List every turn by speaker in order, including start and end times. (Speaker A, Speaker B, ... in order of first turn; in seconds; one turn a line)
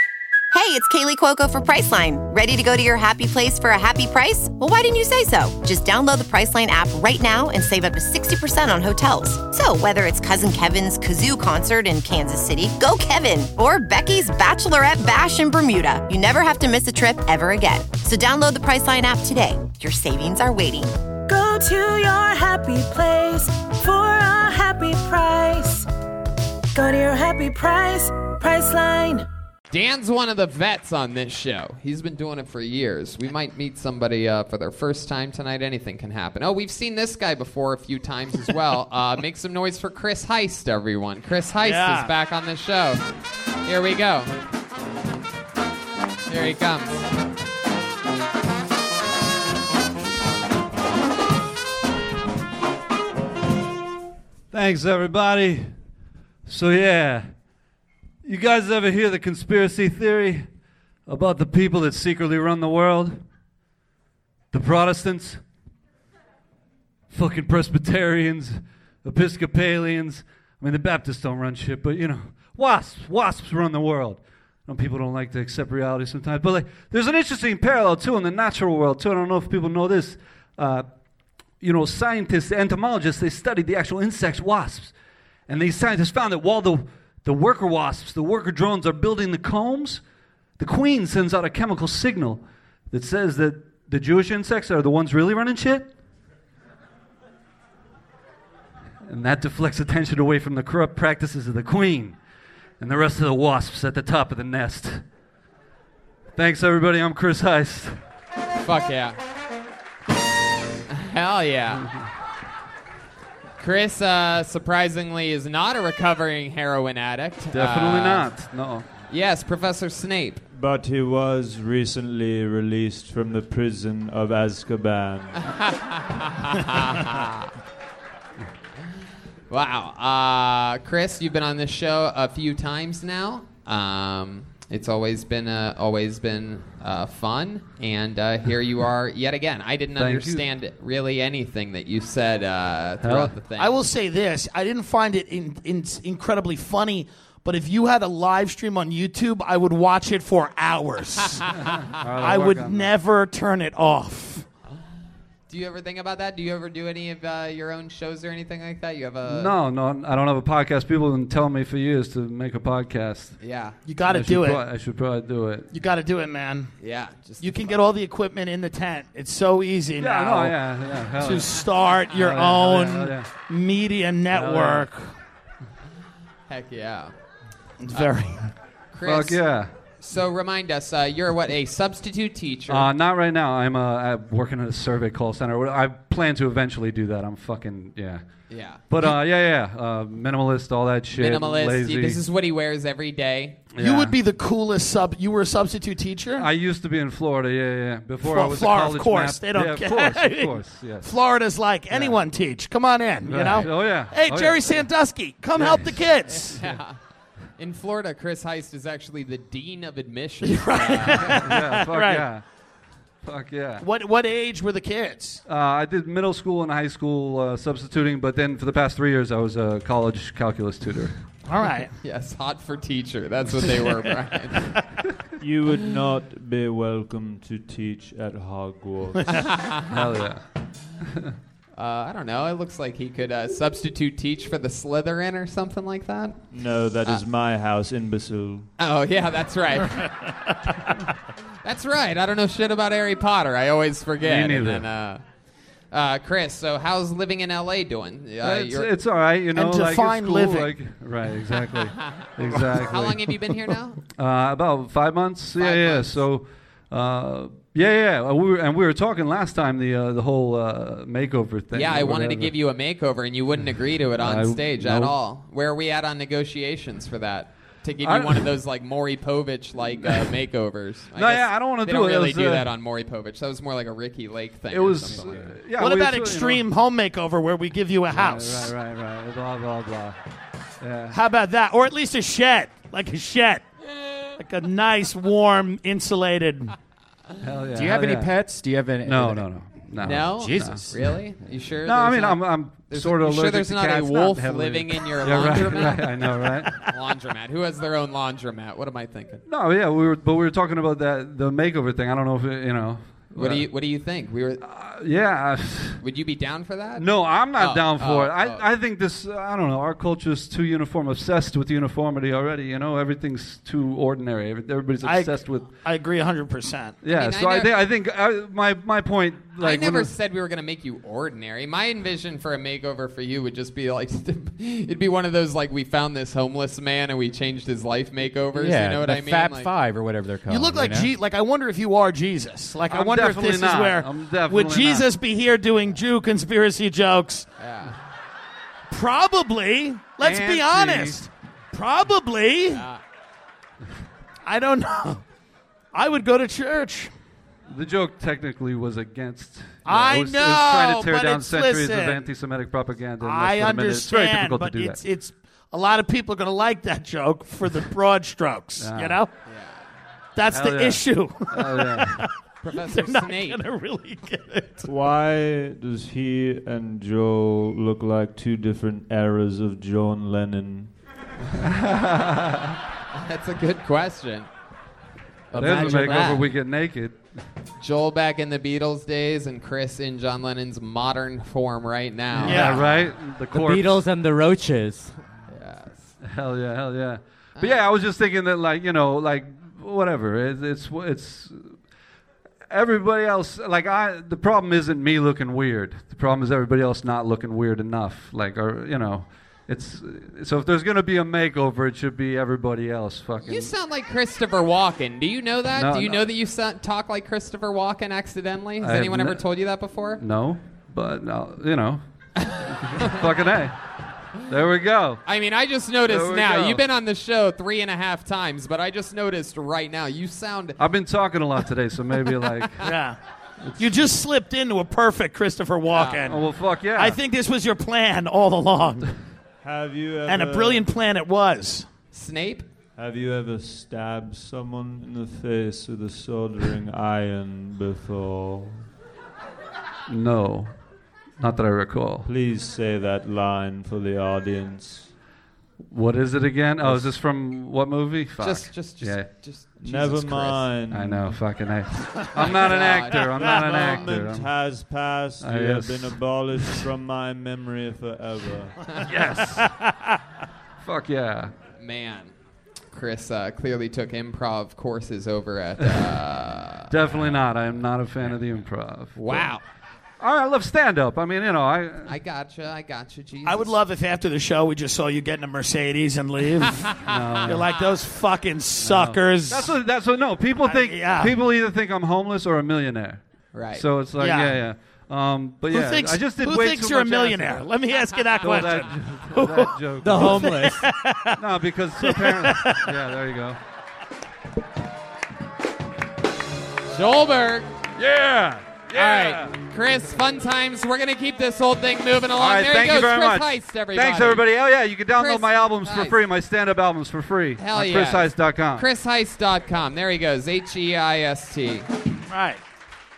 Speaker A: 0.5-20.9
Speaker B: 21.3-25.9
Speaker B: 26.8-29.2
Speaker C: 29.7-43.0
Speaker D: 41.6-42.1
Speaker C: 43.6-44.3
Speaker C: 46.3-47.0
Speaker E: 54.5-55.7
Speaker E: 56.5-57.3
Speaker E: 58.2-60.5
Speaker E: 61.1-63.2
Speaker E: 64.5-65.4
Speaker E: 67.1-80.9
Speaker E: 81.6-84.9
Speaker E: 85.5-90.0
Speaker E: 90.6-95.9
Speaker E: 99.1-102.2
Speaker E: 102.8-105.0
Speaker E: 106.4-108.0
Speaker C: 108.6-109.2
Speaker C: 110.9-111.9
Speaker C: 113.6-118.3
Speaker E: 117.5-118.9
Speaker C: 119.1-120.4
Speaker F: 120.5-125.5
Speaker C: 125.4-127.5
Speaker C: 129.5-143.8
Speaker E: 140.0-140.4
Speaker E: 143.0-143.4
Speaker D: 143.6-151.5
Speaker E: 151.7-152.9
Speaker D: 152.2-154.5
Speaker C: 155.5-159.5
Speaker E: 159.2-163.4
Speaker C: 163.4-163.8
Speaker D: 163.8-164.6
Speaker E: 164.1-165.7
Speaker D: 165.7-166.7
Speaker C: 166.8-167.8
Speaker D: 167.4-170.6
Speaker E: 170.0-173.3
Speaker D: 171.2-175.1
Speaker E: 174.3-174.9
Speaker C: 176.5-177.1
Speaker D: 177.8-178.5
Speaker C: 178.9-179.4
Speaker E: 179.1-179.7
Speaker C: 180.0-182.9
Speaker E: 182.7-188.2
Speaker C: 188.5-188.8
Speaker E: 188.9-192.2
Speaker C: 191.1-193.7
Speaker E: 193.8-194.2
Speaker D: 193.8-196.5
Speaker E: 196.4-201.1
Speaker D: 198.2-206.6
Speaker E: 201.9-202.2
Speaker E: 203.2-204.8
Speaker E: 205.6-206.1
Speaker C: 206.3-207.0
Speaker C: 207.6-211.5
Speaker D: 210.4-212.3
Speaker E: 211.2-212.4
Speaker E: 213.2-213.8
Speaker D: 213.8-215.4
Speaker E: 215.5-221.1
Speaker D: 221.5-221.9
Speaker C: 222.0-224.8
Speaker F: 225.4-229.2
Speaker C: 229.3-230.0
Speaker E: 229.9-230.4
Speaker C: 231.8-236.4
Speaker F: 236.5-238.7
Speaker C: 238.8-240.1
Speaker C: 241.6-245.2
Speaker E: 244.2-244.9
Speaker C: 245.9-248.9
Speaker E: 248.4-253.3
Speaker D: 249.6-250.7
Speaker C: 252.0-252.3
Speaker C: 252.8-254.0
Speaker E: 254.2-262.5
Speaker C: 255.6-256.2
Speaker C: 261.7-275.5
Speaker E: 264.2-265.1
Speaker E: 268.0-268.5
Speaker E: 271.1-272.7
Speaker E: 274.7-276.7
Speaker D: 275.8-278.7
Speaker E: 278.1-280.2
Speaker E: 280.8-281.2
Speaker D: 281.1-283.6
Speaker D: 284.4-286.7
Speaker E: 287.4-288.3
Speaker G: 287.7-290.9
Speaker E: 289.0-290.8
Speaker C: 290.0-296.1
Speaker E: 291.9-296.8
Speaker C: 296.8-299.4
Speaker E: 299.5-303.7
Speaker C: 303.4-304.6
Speaker E: 304.6-306.0
Speaker C: 306.0-308.7
Speaker E: 307.0-315.7
Speaker D: 315.0-317.0
Speaker E: 317.0-320.1
Speaker C: 317.1-317.8
Speaker C: 319.6-329.7
Speaker G: 328.5-331.1
Speaker D: 330.5-337.5
Speaker E: 332.9-335.1
Speaker C: 337.6-338.0
Speaker D: 338.9-342.8
Speaker E: 340.2-341.2
Speaker C: 342.7-343.0
Speaker D: 344.5-345.2
Speaker D: 345.9-347.1
Speaker E: 347.7-355.0
Speaker D: 349.9-352.3
Speaker D: 353.2-359.3
Speaker E: 358.8-359.2
Speaker C: 359.5-359.9
Speaker D: 360.4-364.9
Speaker E: 360.5-362.2
Speaker C: 362.6-363.6
Speaker F: 364.9-370.9
Speaker E: 371.6-372.8
Speaker C: 373.1-374.5
Speaker C: 375.5-376.4
Speaker E: 375.6-377.2
Speaker D: 375.6-376.4
Speaker C: 377.8-382.8
Speaker E: 382.4-384.0
Speaker D: 382.4-382.9
Speaker H: 383.5-385.2
Speaker C: 385.5-386.2
Speaker E: 386.2-391.8
Speaker C: 387.6-387.8
Speaker E: 392.7-403.7
Speaker C: 403.4-410.2
Speaker E: 405.8-406.3
Speaker E: 408.8-409.4
Speaker E: 410.2-412.0
Speaker E: 412.9-413.8
Speaker C: 413.0-413.3
Speaker E: 414.5-415.2
Speaker C: 415.2-420.8
Speaker E: 416.1-416.8
Speaker E: 420.8-422.9
Speaker D: 422.8-423.2
Speaker E: 423.6-424.0
Speaker D: 423.8-429.1
Speaker C: 425.9-426.3
Speaker E: 426.3-427.2
Speaker F: 429.6-430.9
Speaker D: 430.3-431.9
Speaker C: 432.1-432.7
Speaker F: 433.0-438.9
Speaker E: 440.1-440.7
Speaker E: 441.4-442.3
Speaker F: 442.2-445.1
Speaker E: 445.9-449.3
Speaker F: 446.8-447.2
Speaker C: 448.4-450.7
Speaker F: 449.8-451.4
Speaker E: 450.9-454.5
Speaker C: 452.4-454.0
Speaker D: 453.4-453.8
Speaker F: 453.5-458.8
Speaker E: 455.4-456.2
Speaker D: 459.1-460.1
Speaker E: 459.2-459.7
Speaker E: 460.8-461.5
Speaker C: 461.8-462.3
Speaker C: 462.9-466.9
Speaker E: 466.9-469.5
Speaker C: 469.1-469.6
Speaker E: 470.2-472.1
Speaker C: 472.1-473.8
Speaker D: 473.4-476.9
Speaker E: 477.0-477.6
Speaker C: 477.1-477.5
Speaker D: 477.5-479.7
Speaker E: 478.8-487.7
Speaker D: 480.6-481.4
Speaker C: 483.5-483.9
Speaker D: 484.2-484.6
Speaker D: 485.7-491.4
Speaker E: 488.4-490.7
Speaker H: 490.1-490.7
Speaker E: 491.4-493.6
Speaker D: 492.0-492.9
Speaker C: 496.9-497.7
Speaker E: 498.0-499.6
Speaker C: 498.9-504.5
Speaker E: 502.4-508.9
Speaker C: 505.1-506.2
Speaker C: 507.6-511.9
Speaker D: 512.3-512.6